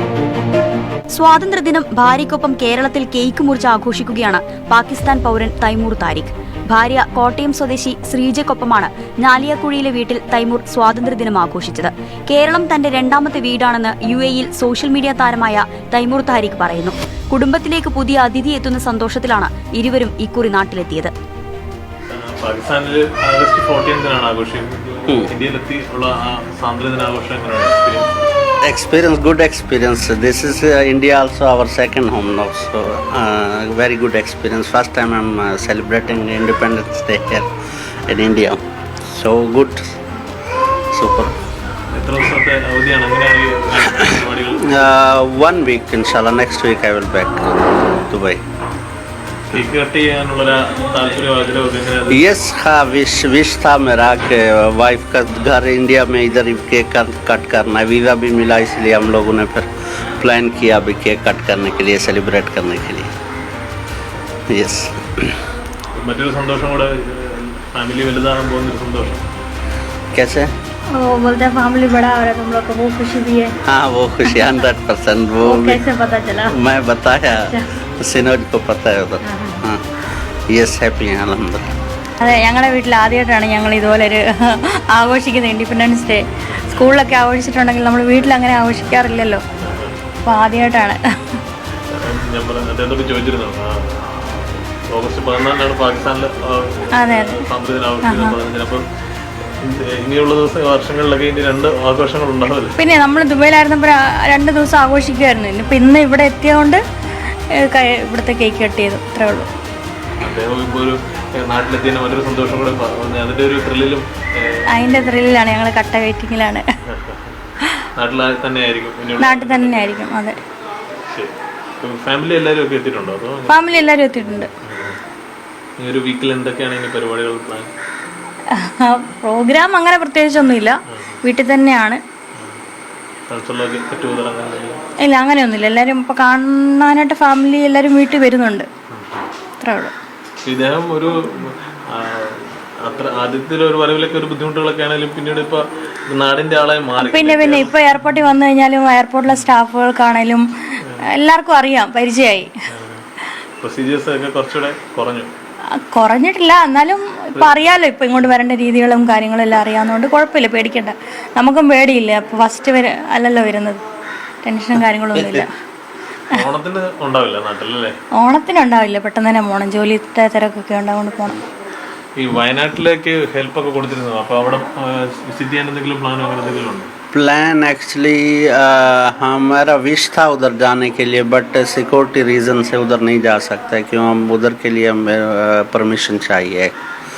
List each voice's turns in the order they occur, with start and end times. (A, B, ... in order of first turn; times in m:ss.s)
0:01.1-0:21.1 A
0:22.1-0:28.1 B
0:28.6-0:37.5 C
0:38.1-0:40.0 C
0:40.9-0:41.3 C
0:41.9-0:45.0 B
0:44.6-0:48.4 C
0:49.5-0:52.3 B
0:52.1-1:03.1 C
1:04.5-1:05.4 C
1:06.0-1:09.2 B
1:10.1-1:10.5 C
1:10.9-1:13.5 D
1:13.6-1:15.8 C
1:15.4-1:16.6 D
1:16.5-1:19.8 C
1:17.4-1:17.6 D
1:19.3-1:19.6 D
1:20.5-1:21.7 C
1:22.2-1:29.4 D
1:29.6-1:30.0 B
1:30.2-1:31.4 D
1:31.9-1:38.9 B
1:37.0-1:37.4 D
1:38.0-1:38.3 D
1:39.4-1:42.8 B
1:42.8-1:46.8 D
1:47.5-1:49.5 D
1:50.2-1:55.0 B
1:54.7-1:56.6 D
1:56.9-1:57.3 B
1:58.0-2:00.0 B
1:59.2-2:00.4 D
2:01.1-2:03.7 B
2:03.5-2:04.5 D
2:04.6-2:05.0 B
2:05.8-2:07.7 B
2:08.5-2:12.0 D
2:10.9-2:11.2 B
2:13.3-2:14.8 B
2:15.0-2:18.6 D
2:18.9-2:19.3 B
2:19.6-2:19.9 D
2:20.4-2:27.8 B
2:27.0-2:30.5 D
2:31.0-2:32.5 D
2:32.7-2:33.0 B
2:33.6-2:35.3 B
2:35.9-2:43.8 D
2:37.3-2:37.7 B
2:44.4-2:45.5 D
2:45.1-2:45.4 C
2:46.3-2:47.9 B
2:48.2-2:51.4 D
2:52.2-2:56.9 B
2:57.1-3:06.7 C